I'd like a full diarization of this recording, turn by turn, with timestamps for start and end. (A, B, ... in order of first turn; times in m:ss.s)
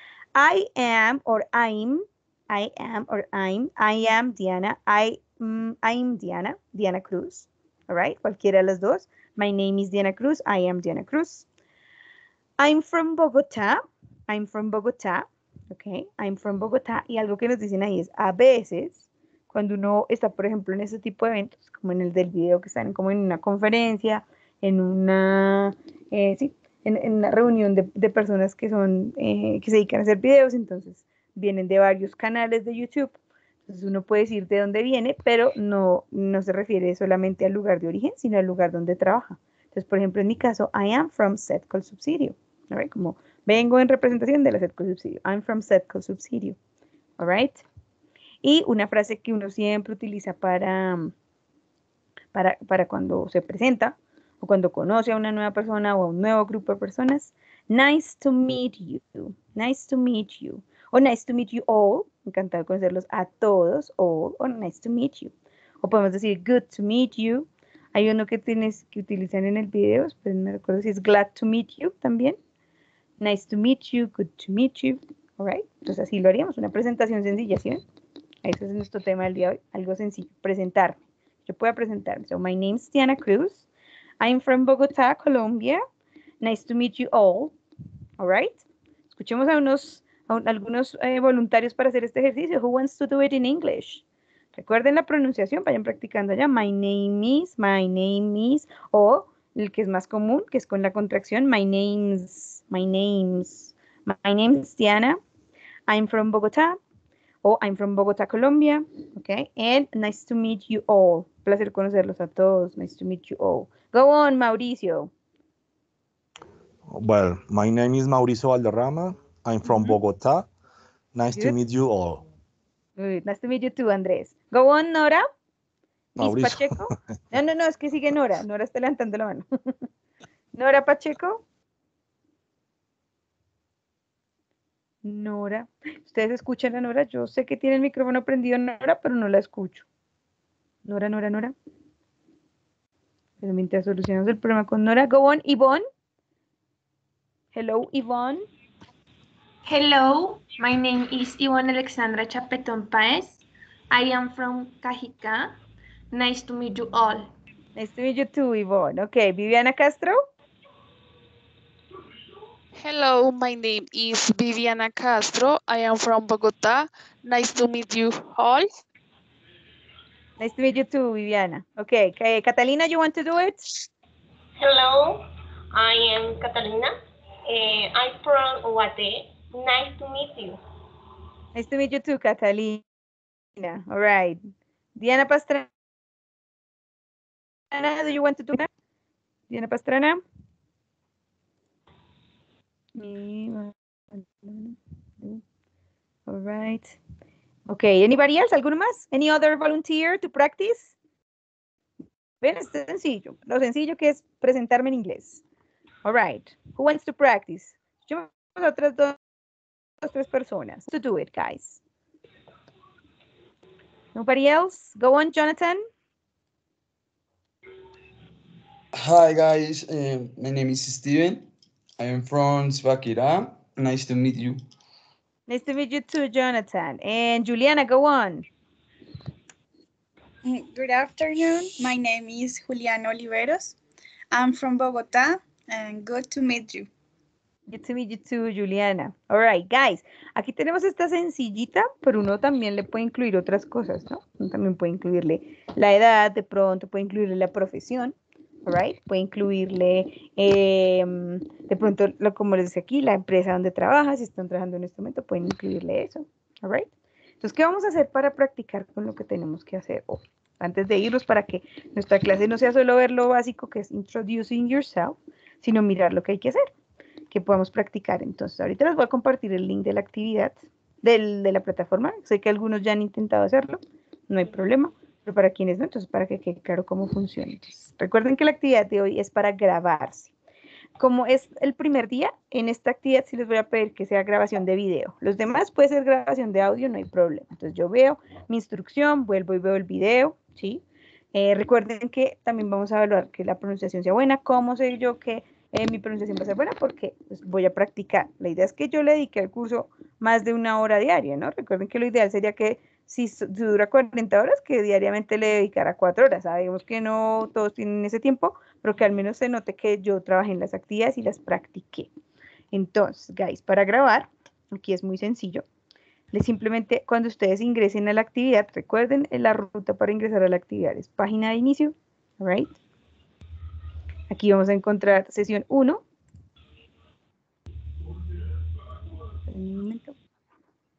0:00.3-0:11.4 A
0:12.6-0:33.1 A
0:33.7-0:46.6 A
0:47.2-0:47.6 A
0:48.4-0:51.1 A
0:52.3-1:12.4 A
1:13.2-1:17.8 A
1:18.4-1:23.6 A
1:24.2-1:25.8 A
1:26.4-1:27.5 A
1:28.2-1:34.0 A
1:34.5-1:45.2 A
1:45.9-1:46.8 A
1:47.4-1:55.1 A
1:56.9-2:00.5 B
1:59.6-2:00.0 A
2:01.1-2:02.2 B
2:03.0-2:05.2 A
2:06.2-2:09.4 A
2:06.2-2:07.0 B
2:10.5-2:11.4 A
2:15.0-2:19.8 A
2:20.8-2:21.5 A
2:23.4-2:25.8 A
2:27.5-2:28.4 A
2:29.6-2:35.6 C
2:36.1-2:37.3 C
2:37.8-2:40.2 A
2:42.7-2:48.7 D
2:50.4-2:53.6 A
2:54.6-2:55.2 E
2:55.7-2:56.9 E
2:57.5-3:00.6 E
3:01.5-3:02.8 A
3:03.6-3:04.4 A
3:05.0-3:05.7 A
3:07.7-3:08.7 A
3:09.5-3:10.2 A
3:12.9-3:15.4 A
3:16.3-3:17.0 A
3:17.7-3:20.9 A
3:22.4-3:25.4 A
3:26.0-3:29.2 A
3:30.0-3:31.8 A
3:34.1-3:35.8 A
3:38.9-3:41.5 F
3:42.0-3:44.6 F
3:45.5-3:48.5 A
3:50.4-3:53.8 G
3:54.3-3:56.9 G
3:57.7-4:08.1 A
4:08.6-4:16.9 A
4:17.4-4:26.7 A
4:27.3-4:40.3 A
4:41.0-4:50.8 A
4:51.3-5:12.1 A
5:12.7-5:15.6 A
5:16.3-5:22.8 A
5:24.3-5:26.0 A
5:29.5-5:30.1 A